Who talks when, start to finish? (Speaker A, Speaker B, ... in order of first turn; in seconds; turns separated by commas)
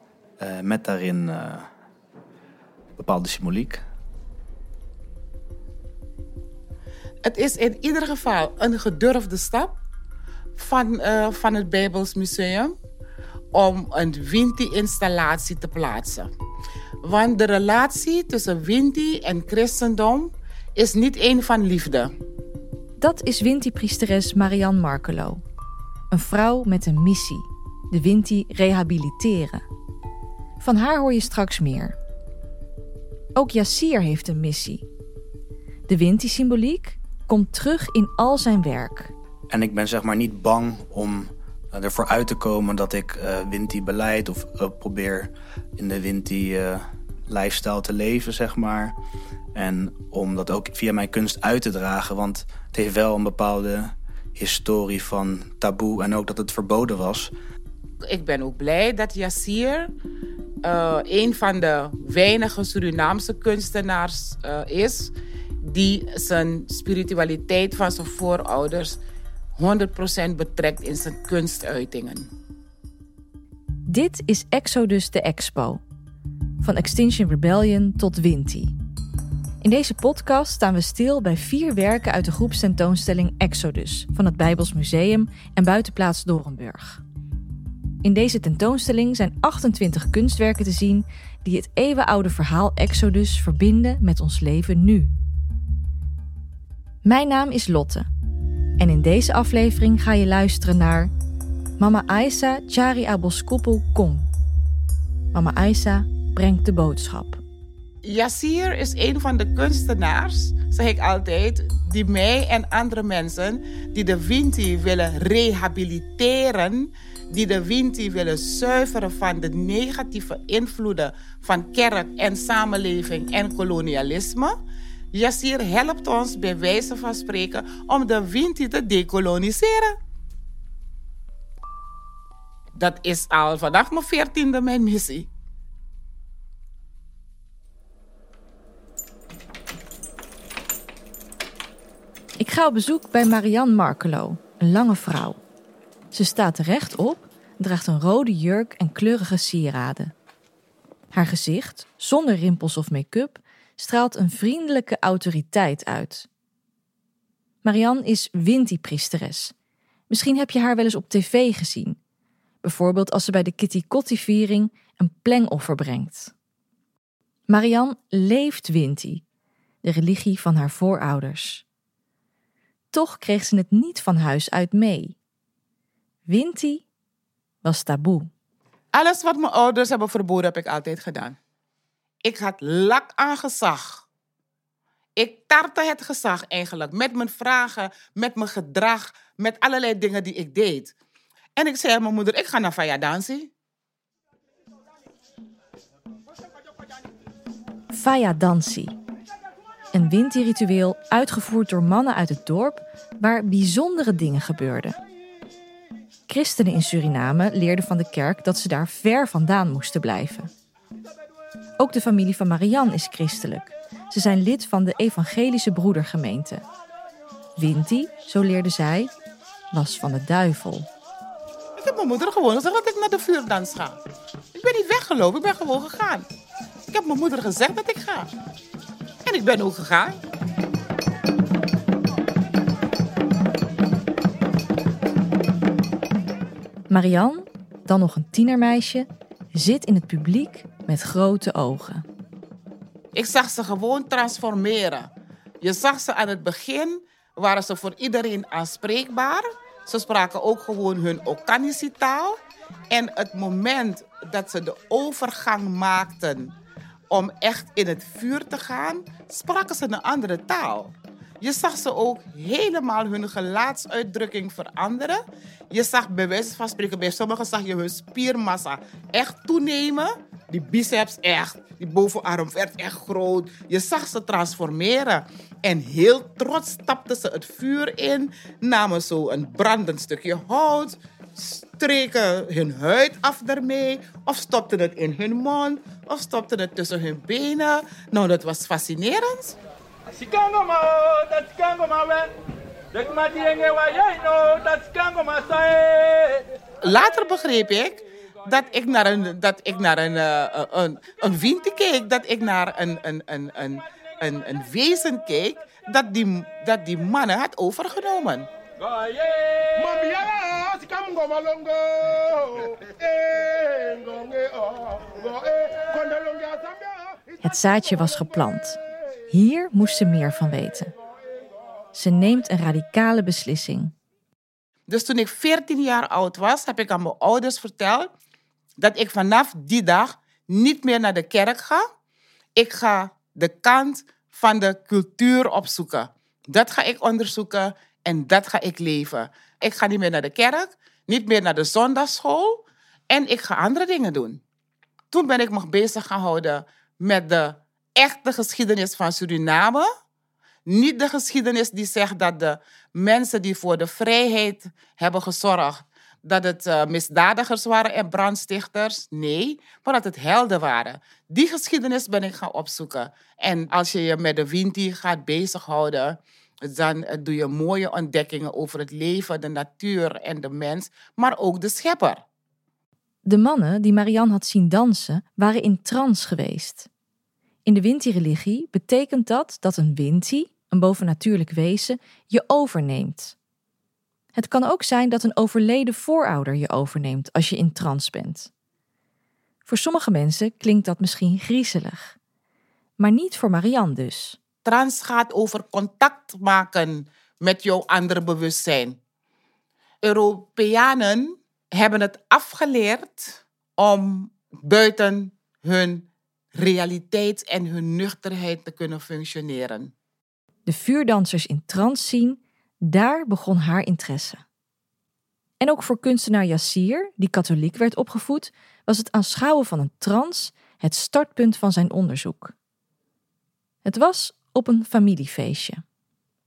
Speaker A: 0.4-1.7, Speaker A: 3.0-3.8, Speaker B: 7.2-9.8, Speaker B: 10.6-12.7, Speaker B: 13.5-16.3, Speaker B: 17.0-22.1, Speaker C: 23.0-25.4, Speaker C: 26.1-29.6, Speaker C: 30.6-32.0, Speaker C: 33.4-34.8, Speaker C: 35.9-39.1, Speaker A: 39.5-48.9, Speaker A: 49.5-57.3, Speaker B: 58.0-59.9, Speaker B: 60.6-69.0, Speaker B: 69.5-72.3, Speaker C: 73.9-75.8, Speaker C: 76.6-78.7, Speaker C: 79.6-87.0, Speaker C: 88.0-95.1, Speaker C: 97.0-98.1, Speaker C: 98.8-101.1, Speaker C: 101.8-104.3, Speaker C: 105.3-107.4, Speaker B: 108.0-124.5, Speaker B: 125.1-129.9, Speaker B: 132.8-135.3, Speaker C: 142.4-145.4, Speaker C: 146.1-150.1, Speaker C: 151.1-156.3, Speaker C: 157.6-159.5, Speaker C: 160.1-162.0, Speaker C: 162.6-166.3, Speaker C: 167.5-169.2, Speaker C: 169.8-171.6, Speaker C: 172.9-175.2, Speaker C: 176.3-176.8, Speaker C: 177.6-178.3, Speaker B: 178.9-181.4, Speaker B: 182.2-184.0, Speaker B: 185.2-190.9, Speaker B: 191.6-193.5, Speaker C: 197.9-198.9, Speaker C: 199.9-205.0, Speaker C: 206.3-210.5, Speaker C: 211.8-216.6, Speaker C: 217.6-219.1, Speaker C: 219.7-220.9, Speaker B: 221.8-224.0, Speaker B: 224.5-226.3, Speaker B: 226.9-228.3, Speaker B: 229.2-230.2, Speaker C: 236.9-242.0, Speaker B: 243.1-245.1, Speaker B: 245.6-252.4, Speaker B: 252.9-256.5, Speaker B: 257.1-289.6, Speaker D: 290.1-292.3, Speaker D: 292.9-296.5, Speaker B: 296.8-308.5, Speaker D: 308.8-311.5, Speaker D: 313.6-314.4, Speaker C: 317.4-320.9, Speaker C: 321.9-323.9, Speaker B: 324.9-328.1, Speaker B: 328.8-331.8, Speaker B: 332.6-344.4, Speaker B: 345.1-349.9, Speaker B: 350.6-372.2, Speaker C: 373.2-376.9, Speaker C: 377.6-383.4, Speaker C: 384.3-388.5, Speaker C: 389.6-392.1, Speaker C: 393.0-394.4, Speaker B: 394.6-399.0, Speaker B: 400.0-409.9, Speaker C: 410.6-414.4, Speaker C: 415.6-422.5, Speaker C: 423.8-425.8